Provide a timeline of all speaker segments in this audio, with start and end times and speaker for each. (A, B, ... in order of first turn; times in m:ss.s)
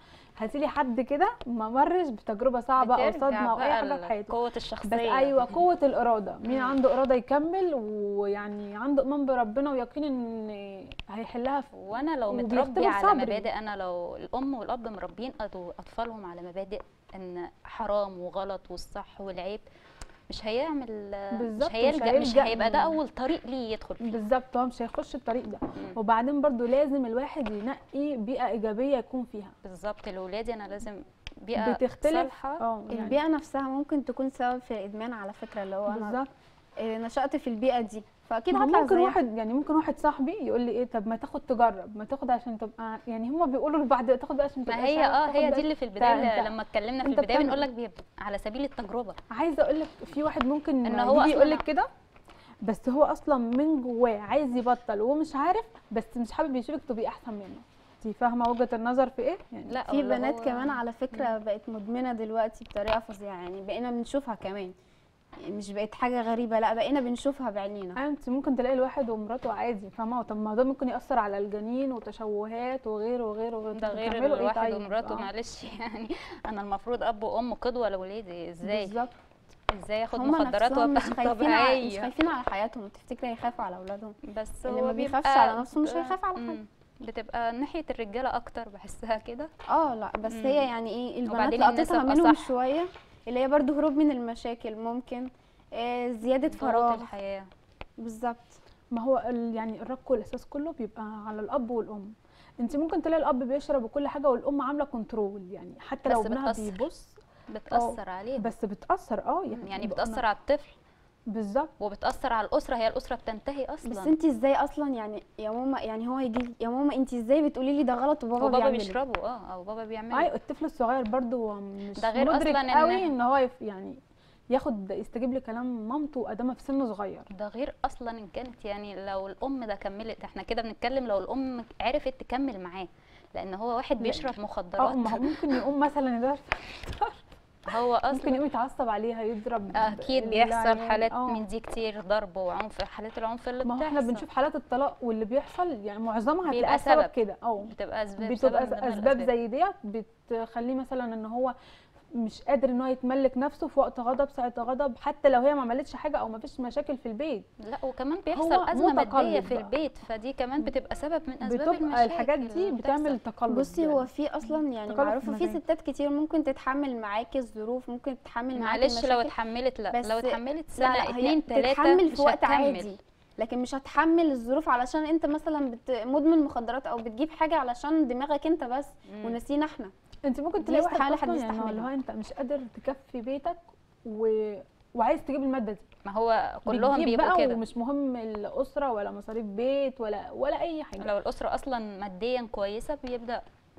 0:00.4-0:11.7 A
0:02.8-0:05.6 B
0:06.4-0:06.8 B
0:11.7-0:19.6 B
0:12.3-0:13.5 A
0:20.3-0:24.2 B
0:21.3-0:23.0 A
0:24.0-0:29.5 A
0:29.6-0:32.6 B
0:31.6-0:33.2 A
0:32.9-0:36.2 C
0:35.9-0:36.3 A
0:36.8-0:39.2 C
0:38.5-0:47.6 A
0:44.7-0:49.2 B
0:49.3-0:51.9 A
0:50.8-0:51.6 B
0:52.6-0:59.8 A
0:59.7-1:01.3 B
0:59.9-1:04.7 C
1:05.4-1:08.0 C
1:08.0-1:15.3 A
1:13.8-1:18.9 B
1:18.6-1:19.1 C
1:19.7-1:22.1 B
1:20.1-1:26.6 C
1:24.3-1:29.5 B
1:29.7-1:37.1 C
1:30.3-1:30.7 B
1:31.3-1:32.5 B
1:36.5-1:37.5 B
1:38.0-1:38.6 C
1:38.9-1:47.2 A
1:46.1-1:46.8 B
1:47.5-1:48.5 B
1:47.7-1:50.2 A
1:49.5-1:50.7 B
1:51.3-1:51.7 A
1:51.8-1:54.1 B
1:53.8-1:59.0 C
1:58.4-2:00.3 B
2:00.1-2:04.0 A
2:02.0-2:03.1 B
2:04.5-2:07.3 A
2:07.3-2:15.6 B
2:14.0-2:21.4 A
2:17.7-2:18.4 B
2:19.8-2:24.2 B
2:23.6-2:31.5 A
2:26.5-2:27.1 B
2:27.7-2:29.3 B
2:32.2-2:37.5 A
2:37.6-2:43.2 B
2:38.3-2:39.7 A
2:41.4-2:44.1 A
2:43.5-2:49.3 C
2:44.9-2:45.6 A
2:48.5-2:52.9 B
2:49.9-2:59.9 C
2:59.1-2:59.4 B
3:00.3-3:05.9 A
3:00.6-3:01.9 C
3:06.1-3:07.6 B
3:06.7-3:11.1 A
3:11.0-3:13.4 B